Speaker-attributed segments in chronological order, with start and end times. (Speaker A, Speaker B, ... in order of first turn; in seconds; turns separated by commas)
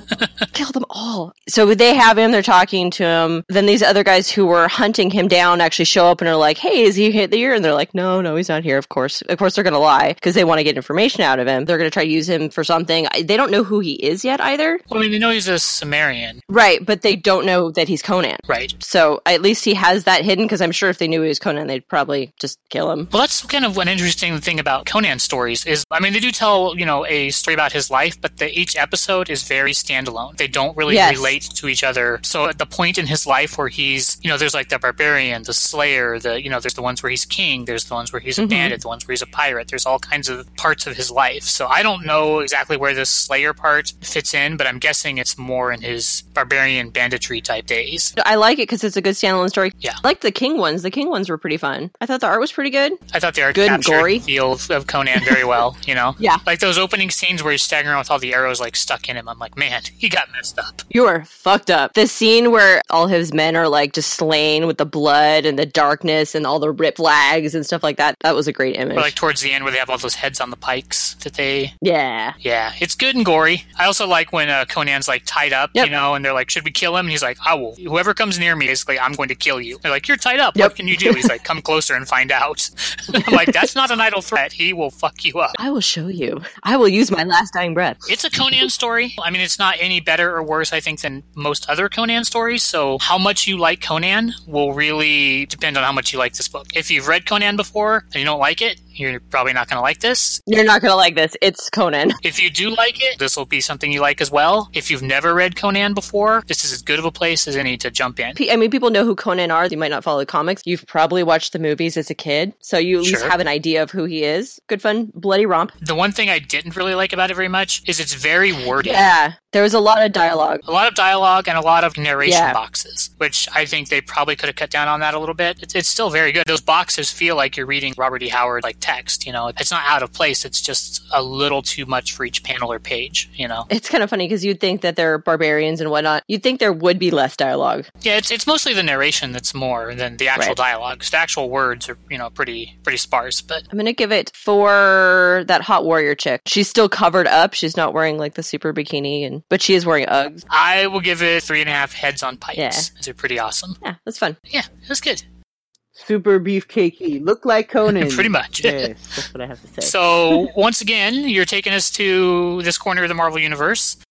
Speaker A: 0.1-0.5, Speaker B: 0.5-14.8, Speaker A: 14.9-16.4, Speaker B: 16.5-23.1, Speaker A: 18.5-18.7, Speaker A: 23.1-48.1, Speaker B: 30.9-31.3, Speaker B: 38.4-38.8, Speaker B: 48.2-53.0, Speaker A: 53.1-60.8, Speaker B: 53.5-54.2, Speaker B: 55.1-55.4, Speaker B: 60.9-69.1, Speaker A: 68.9-71.7, Speaker B: 71.8-72.3, Speaker A: 72.4-85.5, Speaker B: 80.6-81.3, Speaker B: 83.1-83.7, Speaker B: 85.6-88.1, Speaker A: 88.1-100.4, Speaker B: 100.5-102.2, Speaker A: 102.2-108.4, Speaker B: 108.4-115.7, Speaker A: 113.0-113.3, Speaker A: 115.8-119.0, Speaker B: 118.6-120.6, Speaker A: 120.7-133.7, Speaker B: 122.2-122.6, Speaker B: 133.7-137.9, Speaker A: 138.0-143.6, Speaker B: 143.7-150.4, Speaker A: 150.5-153.8, Speaker B: 152.6-152.9, Speaker B: 153.8-154.4, Speaker A: 154.5-155.2, Speaker C: 155.9-160.5, Speaker A: 157.9-158.9, Speaker A: 159.8-164.0